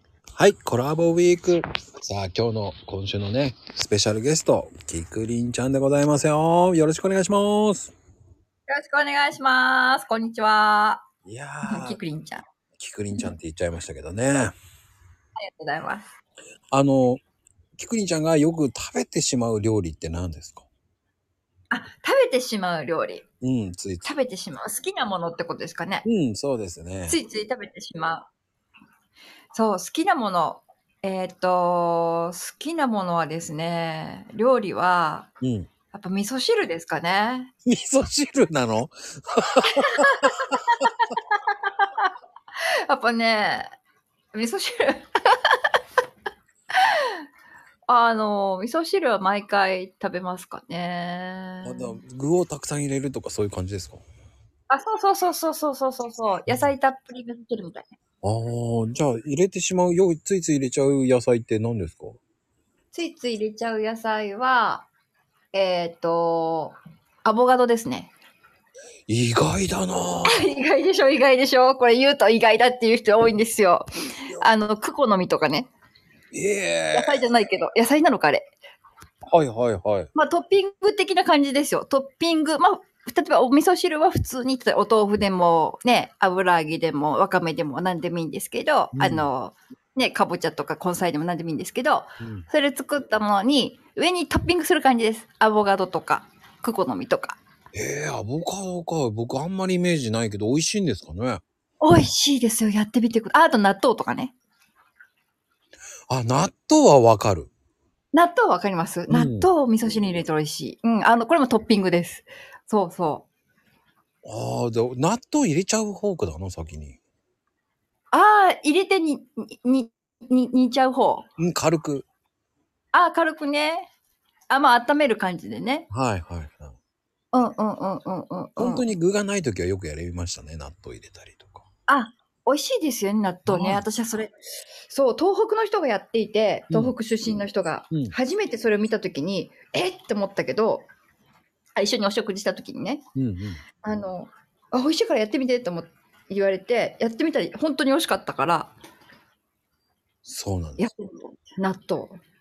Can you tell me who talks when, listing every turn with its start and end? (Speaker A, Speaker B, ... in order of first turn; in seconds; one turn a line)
Speaker A: 0.4-7.9
Speaker B: 8.7-11.0
Speaker A: 11.3-12.0
Speaker B: 11.6-12.4
Speaker A: 12.8-14.6
Speaker B: 15.4-16.0
Speaker A: 16.7-17.2
Speaker A: 17.8-20.7
Speaker B: 21.7-23.2
Speaker A: 23.4-24.1
Speaker B: 24.0-26.1
Speaker A: 26.1-27.2
Speaker B: 27.1-28.3
Speaker B: 29.5-35.3
Speaker A: 35.4-35.7
Speaker B: 35.9-37.5
Speaker A: 37.7-40.3
Speaker B: 39.6-42.1
Speaker B: 42.9-43.7
Speaker B: 44.3-45.6
Speaker B: 46.8-47.2
Speaker B: 47.9-52.0
Speaker A: 51.6-54.0
Speaker B: 54.7-57.9
Speaker A: 58.2-62.2
Speaker B: 62.9-64.9
Speaker B: 65.5-68.1
Speaker A: 69.1-70.5
Speaker B: 70.3-75.7
Speaker A: 76.3-77.2
Speaker B: 76.9-78.5
Speaker A: 79.3-80.1
Speaker B: 80.2-97.4
Speaker A: 88.9-89.3
Speaker A: 92.2-92.5
Speaker A: 97.7-101.4
Speaker B: 101.8-104.3
Speaker A: 106.1-107.5
Speaker B: 108.1-113.2
Speaker A: 109.1-109.5
Speaker A: 114.2-117.0
Speaker B: 118.1-121.3
Speaker A: 121.4-122.1
Speaker B: 122.9-123.9
Speaker B: 124.5-125.9
Speaker A: 125.9-126.8
Speaker B: 127.3-128.8
Speaker A: 128.6-131.7
Speaker B: 131.9-134.3
Speaker A: 133.4-133.8
Speaker B: 134.9-140.8
Speaker A: 136.7-136.9
Speaker B: 141.8-143.0
Speaker A: 143.2-143.6
Speaker B: 143.8-148.7
Speaker A: 150.2-150.9
Speaker B: 150.8-152.2